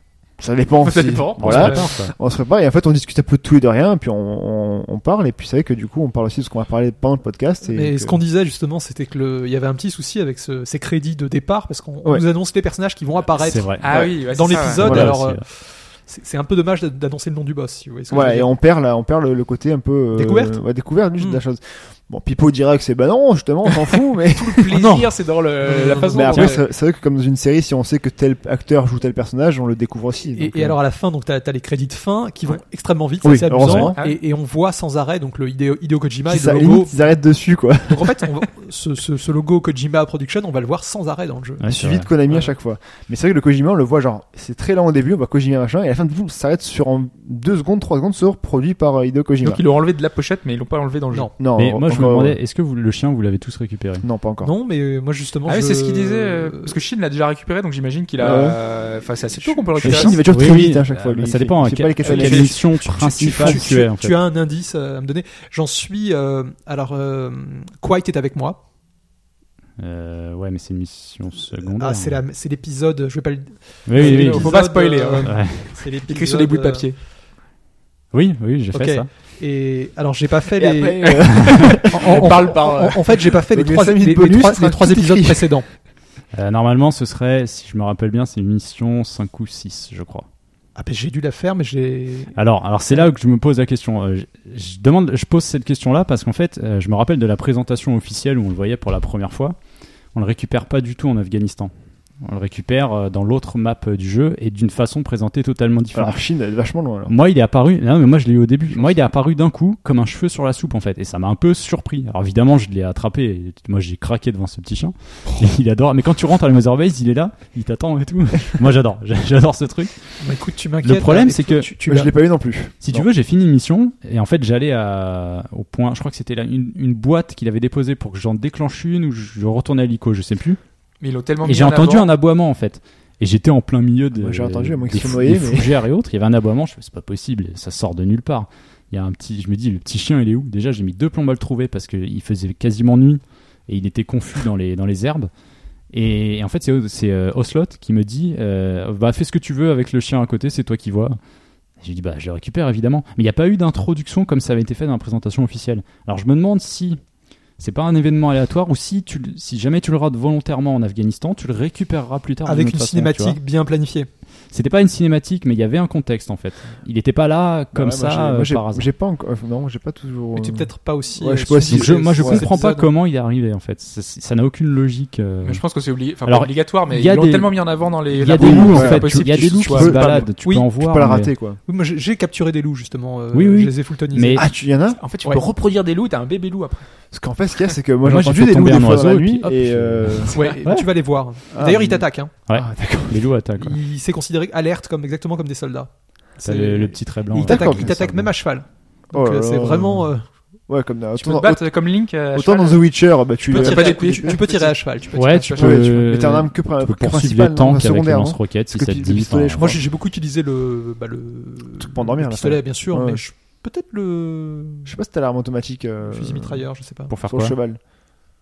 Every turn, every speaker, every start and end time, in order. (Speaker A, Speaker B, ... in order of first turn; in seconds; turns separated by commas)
Speaker A: 0.4-8.2, Speaker B: 0.8-2.0, Speaker C: 1.4-2.1, Speaker D: 7.6-18.5, Speaker C: 13.4-13.9, Speaker B: 13.8-14.9, Speaker A: 13.9-14.2, Speaker C: 14.7-15.4, Speaker A: 14.8-15.2, Speaker A: 18.1-24.8, Speaker D: 20.1-20.6, Speaker B: 24.4-26.7, Speaker C: 24.8-25.1, Speaker D: 25.6-26.5, Speaker A: 26.1-30.8, Speaker D: 30.3-37.0, Speaker A: 33.2-34.0, Speaker C: 33.6-33.9, Speaker B: 33.7-34.2, Speaker A: 36.3-38.2, Speaker D: 37.9-41.7, Speaker C: 41.6-42.1, Speaker A: 41.7-49.6, Speaker B: 49.4-51.4, Speaker A: 51.4-52.4, Speaker C: 51.5-54.1, Speaker A: 54.0-54.5, Speaker D: 54.4-56.8, Speaker B: 55.5-60.2, Speaker A: 58.2-58.6, Speaker D: 59.4-60.2, Speaker A: 59.8-63.7, Speaker C: 59.8-64.2, Speaker D: 62.1-68.6, Speaker C: 69.8-72.2, Speaker D: 71.6-76.9, Speaker C: 73.9-74.6, Speaker B: 74.0-75.4, Speaker C: 75.2-75.8, Speaker B: 75.9-77.0, Speaker C: 78.1-79.1, Speaker D: 78.7-85.7, Speaker A: 80.6-82.1, Speaker B: 81.2-83.3, Speaker A: 83.5-85.6, Speaker C: 86.3-90.3, Speaker D: 90.8-92.4, Speaker C: 92.3-99.6, Speaker C: 100.2-106.2, Speaker A: 105.9-107.2, Speaker C: 107.1-120.2, Speaker D: 120.2-122.1, Speaker C: 120.8-121.7, Speaker A: 121.8-123.1, Speaker C: 122.8-130.6, Speaker B: 131.0-132.1, Speaker C: 131.4-145.3, Speaker A: 134.1-135.8, Speaker C: 145.9-151.2, Speaker C: 151.8-157.0, Speaker C: 157.6-163.4, Speaker D: 162.4-164.1, Speaker C: 164.5-168.9, Speaker A: 167.7-172.5, Speaker D: 170.3-172.9, Speaker C: 171.7-175.7, Speaker B: 175.4-180.2, Speaker C: 176.2-181.3, Speaker A: 178.4-181.6, Speaker D: 180.4-180.7, Speaker D: 181.7-184.5, Speaker C: 183.3-184.5, Speaker A: 184.4-185.0, Speaker B: 185.0-186.9, Speaker A: 187.1-190.4, Speaker C: 188.0-190.8, Speaker B: 190.3-190.6, Speaker D: 190.3-192.3, Speaker A: 191.5-193.3, Speaker C: 192.5-193.8, Speaker D: 193.6-200.3, Speaker C: 196.4-198.3, Speaker A: 197.4-197.9, Speaker A: 199.1-200.1, Speaker A: 200.7-204.4, Speaker B: 201.2-202.8, Speaker B: 203.5-205.8, Speaker D: 203.5-205.8, Speaker C: 205.1-209.7, Speaker A: 205.6-209.8, Speaker D: 209.6-214.9, Speaker A: 211.8-213.2, Speaker A: 214.8-216.7, Speaker D: 216.1-217.1, Speaker C: 217.1-217.6, Speaker A: 217.3-217.8